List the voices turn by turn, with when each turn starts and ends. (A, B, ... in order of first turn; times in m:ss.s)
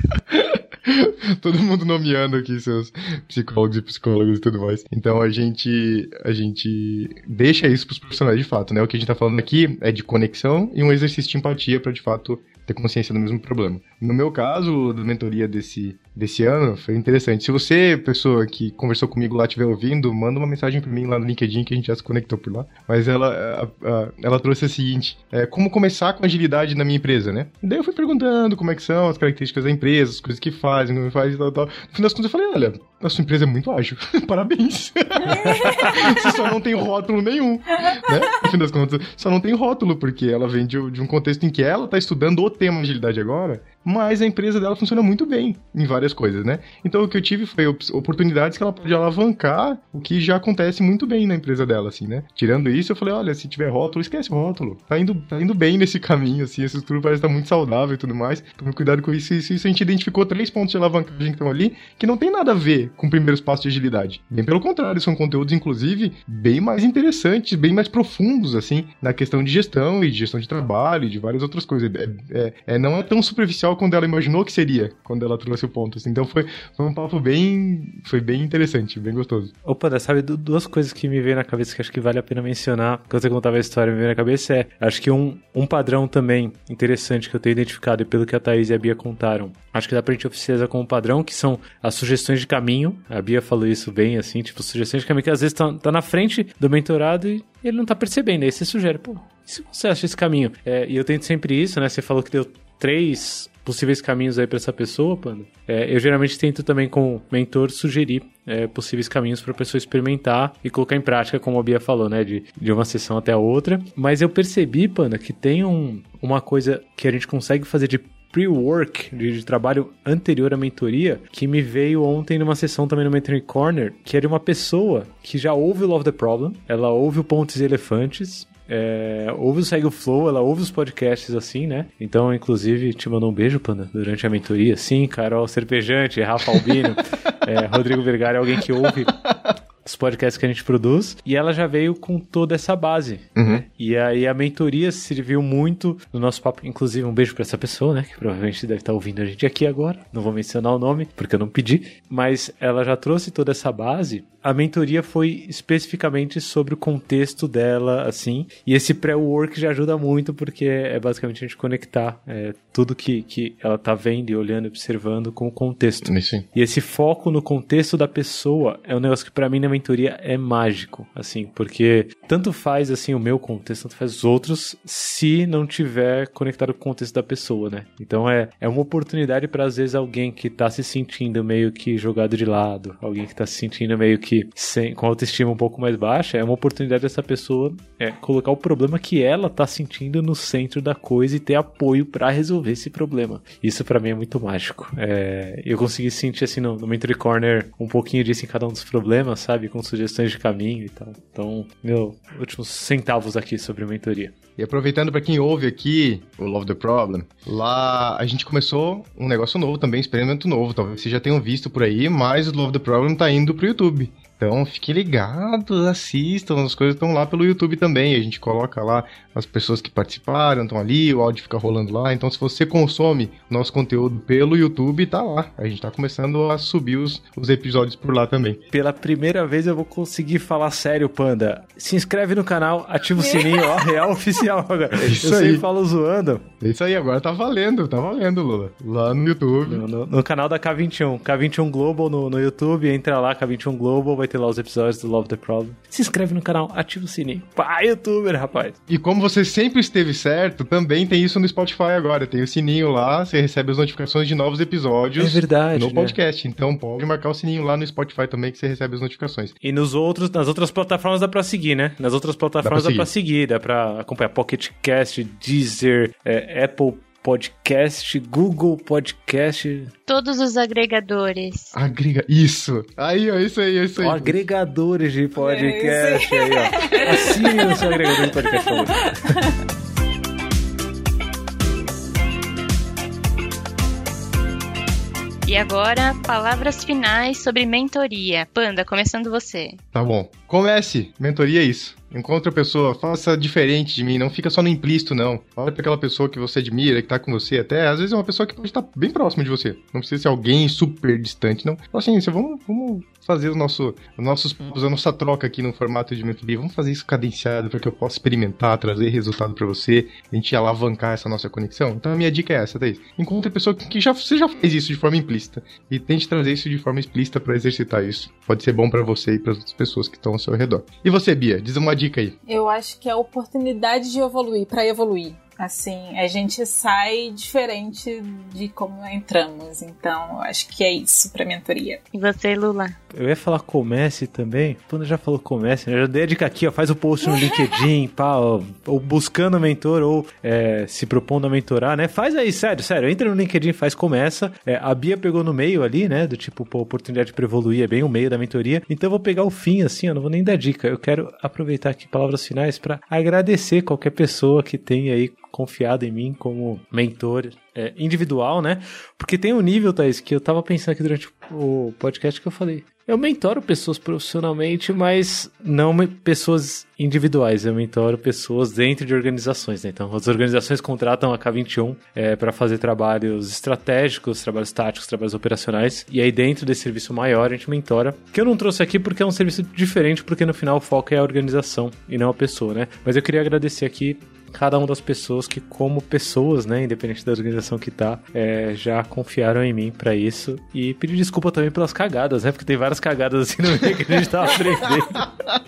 0:00.3-1:19.5 A
0:35.2-0:36.0 B
0:35.5-0:36.1 C
1:19.6-2:19.2 C
2:16.5-2:16.8 A
2:19.8-3:24.3 C
2:23.4-2:23.6 A
2:46.0-2:46.4 A
3:24.6-3:48.6 A
3:48.7-3:56.4 C
3:55.0-3:55.6 A
3:56.6-3:59.8 A
3:59.6-4:08.8 C
4:08.9-4:19.5 A
4:15.2-4:16.2 C
4:19.6-4:29.9 C
4:22.6-4:23.1 A
4:30.1-4:31.7 D
4:31.7-4:34.4 A
4:34.0-4:39.4 C
4:35.4-4:39.4 B
4:45.4-4:49.8 D
4:49.9-5:22.4 A
5:22.5-5:32.0 B
5:32.1-5:33.0 D
5:33.1-6:35.3 C